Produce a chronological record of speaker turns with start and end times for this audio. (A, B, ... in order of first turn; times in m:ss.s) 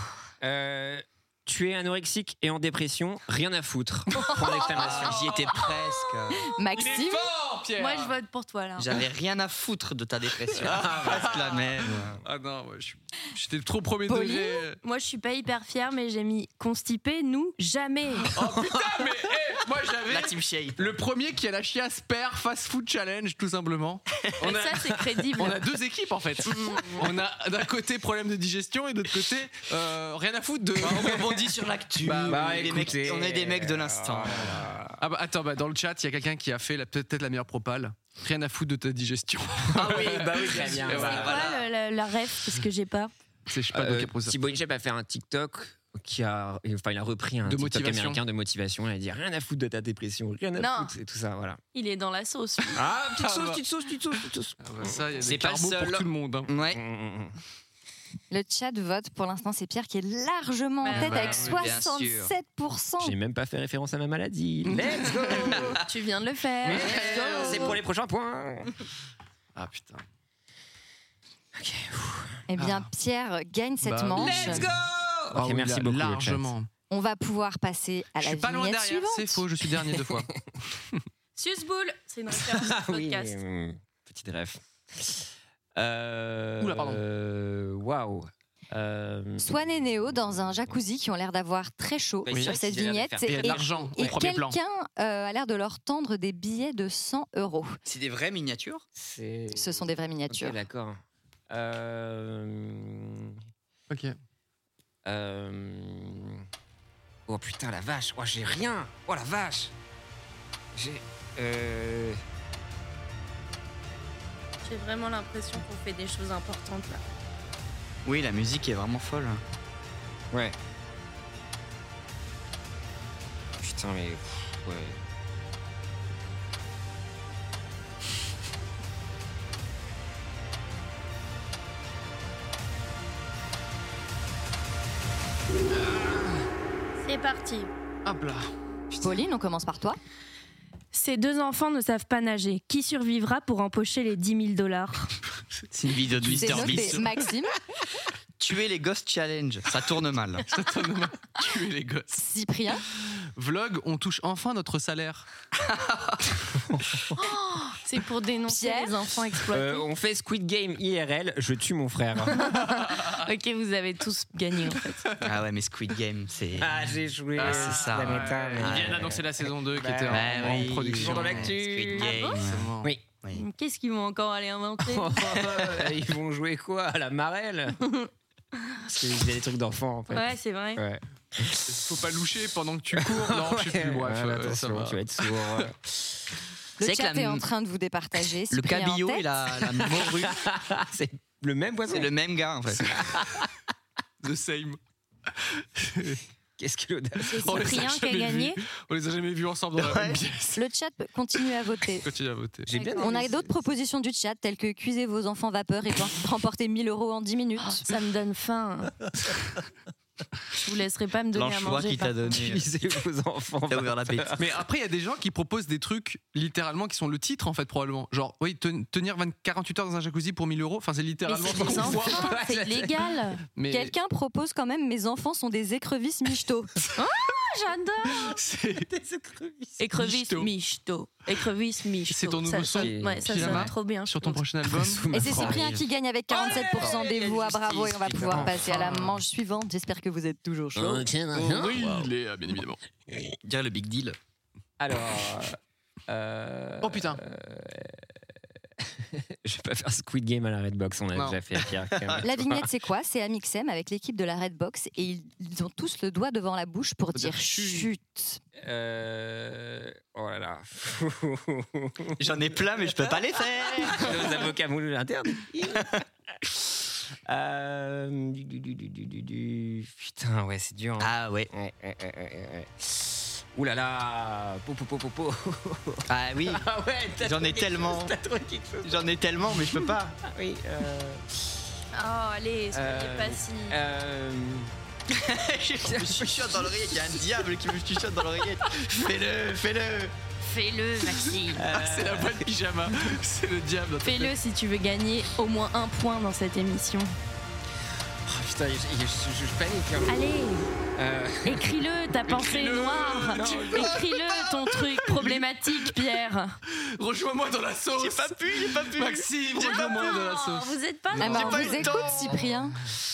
0:00.4-0:05.4 A
0:04.7-0:06.5 B
0:04.9-0:05.3 C
0:06.4-0:07.3 D
0:06.7-0:08.1 C
0:07.8-0:09.0 E
0:08.8-0:12.2 B
0:10.5-0:14.8 C
0:10.6-0:11.4 A
0:14.1-0:14.6 D
0:14.8-0:18.3 E
0:18.3-0:24.7 C
0:18.4-0:19.0 A
0:20.1-0:21.0 B
0:24.2-0:24.5 B
0:24.4-0:25.6 E
0:25.4-0:32.9 C
0:30.8-0:34.7 B
0:32.2-0:35.0 A
0:35.0-0:41.4 C
0:39.7-0:41.5 A
0:40.6-0:41.6 B
0:41.1-0:43.1 E
0:43.5-0:44.4 C
0:43.7-0:51.6 A
0:47.4-0:48.2 C
0:50.6-0:50.9 E
0:51.7-0:52.8 E
0:52.7-0:56.0 A
0:53.2-0:53.6 C
0:54.6-0:56.5 C
0:56.5-0:56.8 B
0:56.7-0:57.3 A
0:58.3-1:03.2 D
1:00.8-1:01.4 E
1:00.9-1:01.6 C
1:01.1-1:02.3 B
1:03.0-1:05.8 A
1:04.7-1:05.6 C
1:05.8-1:07.8 E
1:06.6-1:08.7 A
1:06.8-1:07.7 C
1:09.5-1:10.0 C
1:11.5-1:12.4 A
1:12.5-1:14.7 D
1:12.6-1:12.9 C
1:13.8-1:14.7 C
1:14.2-1:16.5 A
1:15.3-1:16.7 C
1:16.9-1:19.4 D
1:18.2-1:21.0 C
1:19.8-1:20.4 A
1:21.4-1:23.4 E
1:22.3-1:30.8 A
1:26.6-1:27.0 C
1:29.4-1:37.8 D
1:32.2-1:34.1 A
1:32.3-1:32.6 C
1:33.2-1:34.6 C
1:37.8-1:38.8 B
1:39.0-1:43.4 A
1:39.5-1:40.6 D
1:43.9-1:44.2 C
1:45.0-1:46.4 A
1:47.3-1:49.7 A
1:50.7-1:52.2 A
1:54.6-1:57.0 E
1:58.0-1:59.4 B
2:03.6-2:05.0 A
2:15.9-2:16.2 A
2:17.0-2:17.7 E
2:18.0-2:18.5 C
2:19.0-2:20.0 D
2:20.9-2:25.1 E
2:25.7-2:27.1 B
2:26.1-2:27.0 C
2:26.4-2:27.5 D
2:28.4-2:30.4 B
2:30.5-2:32.2 C
2:32.1-2:32.8 D
2:33.4-2:35.3 C
2:35.6-2:36.3 B
2:37.2-2:39.8 E
2:38.5-2:39.0 D
2:39.5-2:42.6 A
2:42.4-2:45.1 E
2:42.5-2:43.2 C
2:45.2-2:46.8 B
2:46.6-2:52.3 A
2:47.4-2:51.6 C
2:47.4-2:49.1 B
2:50.1-2:52.7 B
2:52.0-2:52.4 E
2:52.4-2:52.9 C
2:53.3-2:55.4 E
2:54.8-2:57.8 A
2:58.9-3:01.7 A
3:00.1-3:00.8 E
3:01.7-3:05.3 C
3:02.9-3:06.3 A
3:06.8-3:09.3 D
3:06.8-3:07.4 B
3:08.5-3:10.4 B
3:09.7-3:12.1 A
3:11.9-3:12.9 B
3:12.8-3:13.5 A
3:14.2-3:14.8 C
3:15.4-3:16.2 C
3:16.6-3:17.8 A
3:17.3-3:18.6 E
3:17.4-3:20.6 C
3:19.8-3:20.2 B
3:20.6-3:22.1 D
3:22.0-3:22.7 C
3:22.6-3:23.4 A
3:22.7-3:23.3 E
3:23.0-3:27.8 D
3:27.6-3:28.9 E
3:30.6-3:32.3 E
3:31.3-3:32.7 B
3:32.3-3:34.4 A
3:33.7-3:34.4 B
3:34.4-3:42.4 C
3:41.3-3:43.4 E
3:41.4-3:43.2 A
3:43.5-3:43.9 C
3:43.7-3:46.7 D
3:47.0-3:48.3 E
3:48.2-3:48.9 C
3:48.8-3:49.8 A
3:49.8-3:54.4 E
3:49.9-3:50.5 C
3:52.1-3:55.6 C
3:52.7-3:53.7 A
3:54.7-3:55.8 A
3:55.1-4:01.1 D
3:56.3-3:59.0 B
3:56.4-3:58.7 A
3:58.4-3:59.1 C
4:00.8-4:02.1 A
4:01.3-4:02.8 C
4:03.4-4:04.2 B
4:04.8-4:08.1 A
4:06.8-4:07.2 C
4:08.8-4:12.6 A
4:11.1-4:11.4 C
4:12.2-4:18.4 D
4:17.1-4:17.9 C
4:18.6-4:23.1 A
4:22.2-4:24.3 B
4:23.8-4:26.0 A
4:27.2-4:39.1 A
4:31.0-4:31.5 B
4:36.1-4:36.6 B
4:37.2-4:38.1 B
4:38.8-4:40.2 B
4:39.8-4:41.6 A
4:41.9-4:43.8 E
4:42.7-4:44.7 A
4:45.1-4:50.1 B
4:45.8-4:47.2 A
4:50.4-4:51.6 E
4:51.1-4:54.3 C
4:51.6-4:52.4 A
4:54.0-4:57.1 E
4:58.2-5:00.2 A
5:00.1-5:00.7 E
5:01.0-5:01.7 A
5:01.4-5:06.6 E
5:02.3-5:05.9 C
5:03.3-5:04.0 A
5:06.8-5:11.8 C
5:08.0-5:10.1 B
5:09.6-5:11.8 E
5:11.2-5:12.8 D
5:11.2-5:12.5 B